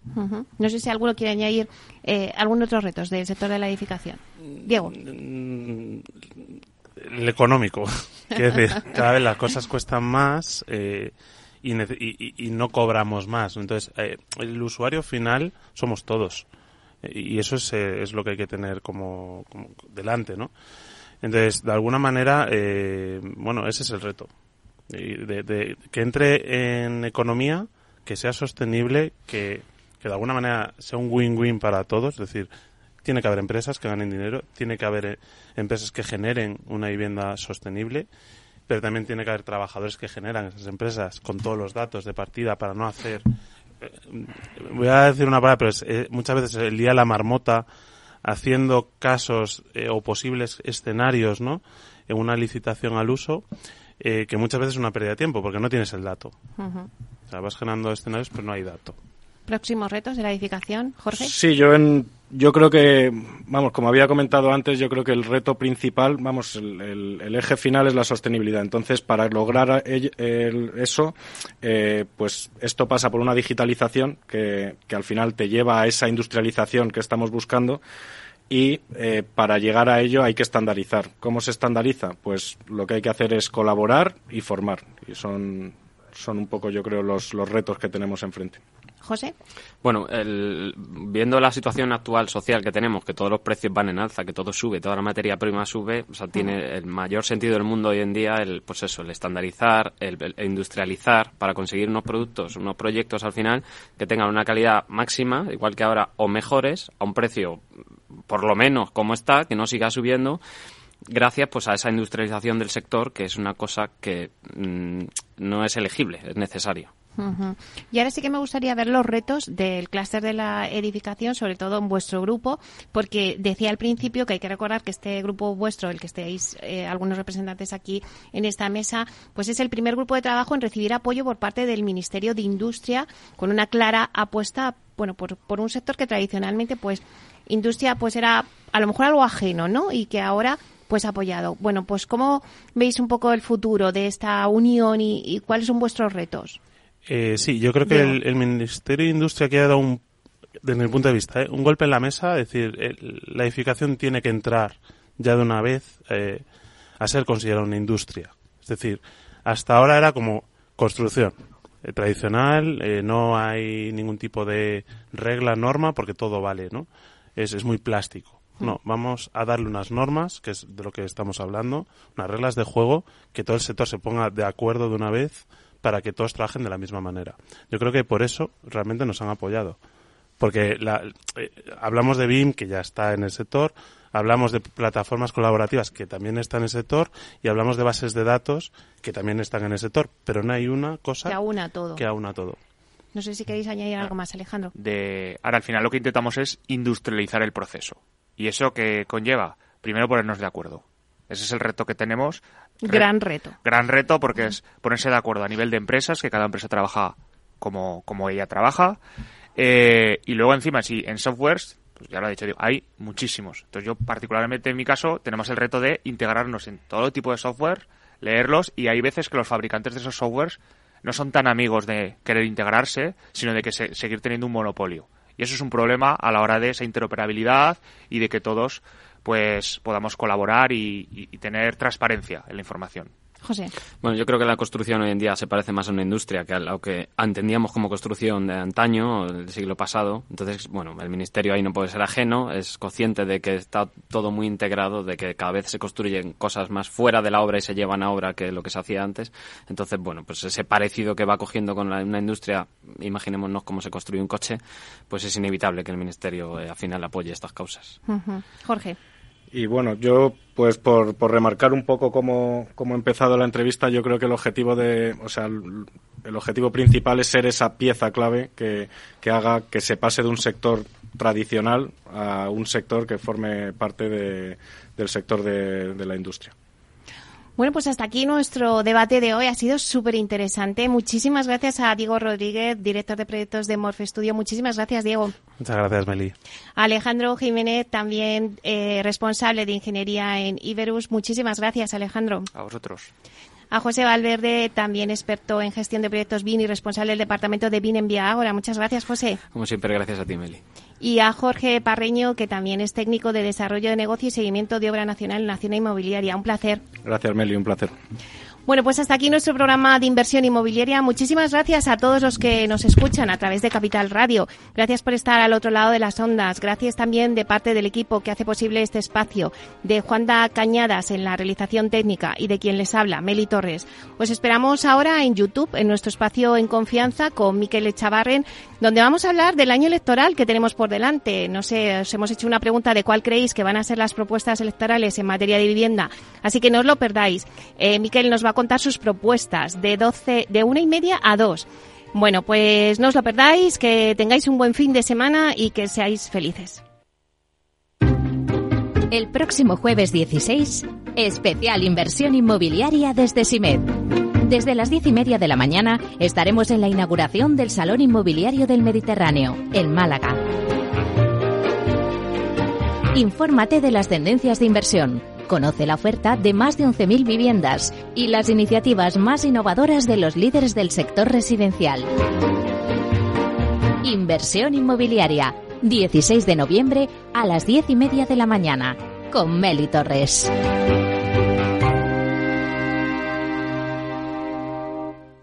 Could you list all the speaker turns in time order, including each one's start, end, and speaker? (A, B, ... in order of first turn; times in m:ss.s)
0:00.1-0:04.9 A
0:04.6-0:06.4 B
0:07.0-0:16.4 B
0:17.0-0:20.5 B
0:21.2-0:24.3 B
0:24.9-0:32.5 B
0:33.0-0:38.1 B
0:38.7-0:43.2 B
0:43.8-0:47.6 B
0:48.2-0:53.4 B
0:54.0-0:56.3 B
0:56.6-0:56.9 A
0:57.3-0:59.0 B
0:59.5-1:01.3 A
1:01.1-1:17.8 C
1:18.5-1:28.6 C
1:29.0-1:29.3 A
1:29.8-1:47.6 D
1:48.3-1:50.4 D
1:51.1-1:56.9 D
1:57.2-2:26.6 A
2:27.0-2:30.0 B
2:27.8-2:28.2 A
2:30.6-2:36.4 B
2:37.0-2:59.8 B
3:00.4-3:11.4 B
3:11.2-3:12.0 A
3:12.0-3:12.6 B
3:13.1-3:14.7 A
3:14.7-3:23.1 E
3:22.8-3:23.6 A
3:23.6-3:29.0 E
3:29.6-3:53.1 E
3:53.4-3:53.7 A
3:54.0-4:18.0 D
4:18.1-4:19.0 A
4:19.5-4:36.5 C
4:37.6-4:45.3 A
4:45.6-4:46.3 B
4:46.8-4:52.5 A
4:52.5-4:53.1 E
4:53.7-4:59.4 A
4:59.5-5:00.6 D
5:01.0-5:06.8 A
5:07.0-5:07.9 C
5:08.7-5:46.8 A
5:49.1-6:00.4 F
6:03.1-6:12.1 F
6:14.0-6:20.5 F